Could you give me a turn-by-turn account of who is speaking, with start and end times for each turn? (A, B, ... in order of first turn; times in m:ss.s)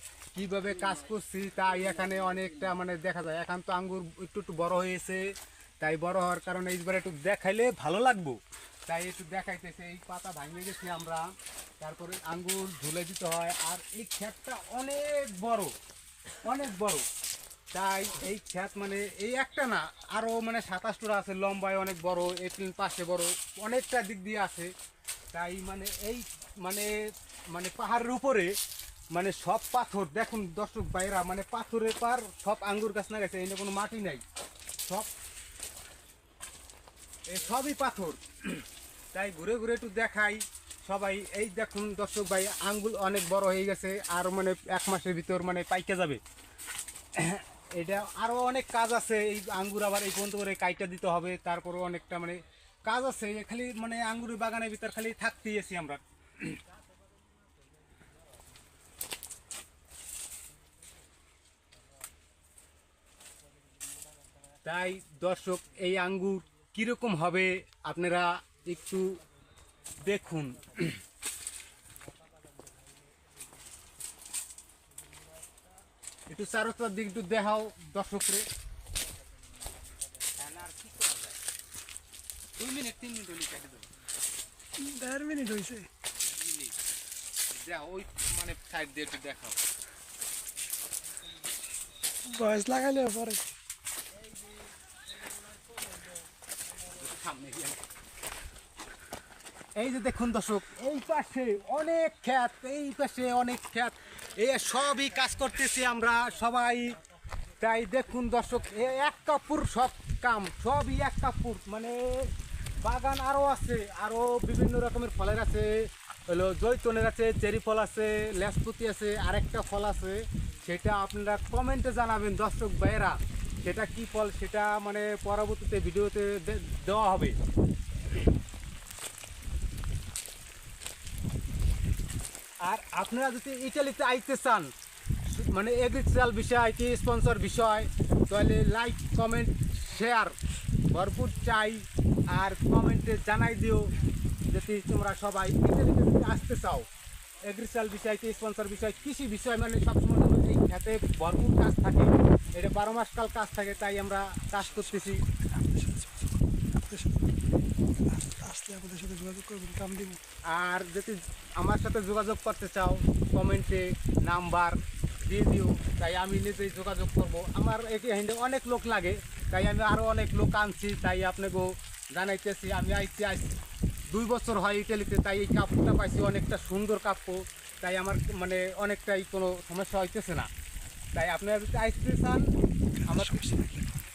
0:00.3-0:15.7 A
0:16.4-0:17.0 A
0:17.7-0:24.7 A
0:25.3-0:26.9 A
0:27.5-0:28.5 A
0:29.1-0:34.2 A
0:37.3-0:46.2 A
0:47.1-0:56.6 A
1:04.6-1:09.2 A
1:10.0-1:11.0 A
1:16.3-1:18.5 A
1:20.4-1:21.4 A
1:22.6-1:23.9 A
1:24.8-1:25.9 B
1:26.2-1:26.8 A
1:27.5-1:29.6 A
1:32.2-1:33.4 B
1:36.8-1:37.8 A
1:39.8-1:47.0 A
1:47.6-2:07.4 A
2:12.6-2:14.7 A
2:15.3-2:20.4 A
2:20.9-2:23.9 A
2:24.4-2:26.9 A
2:27.4-2:35.2 A
2:34.7-2:37.3 B
2:38.0-2:40.2 B
2:40.5-2:53.5 A
2:54.1-3:00.5 A
3:01.1-3:02.5 A
3:02.9-3:04.0 B
3:03.0-3:03.4 A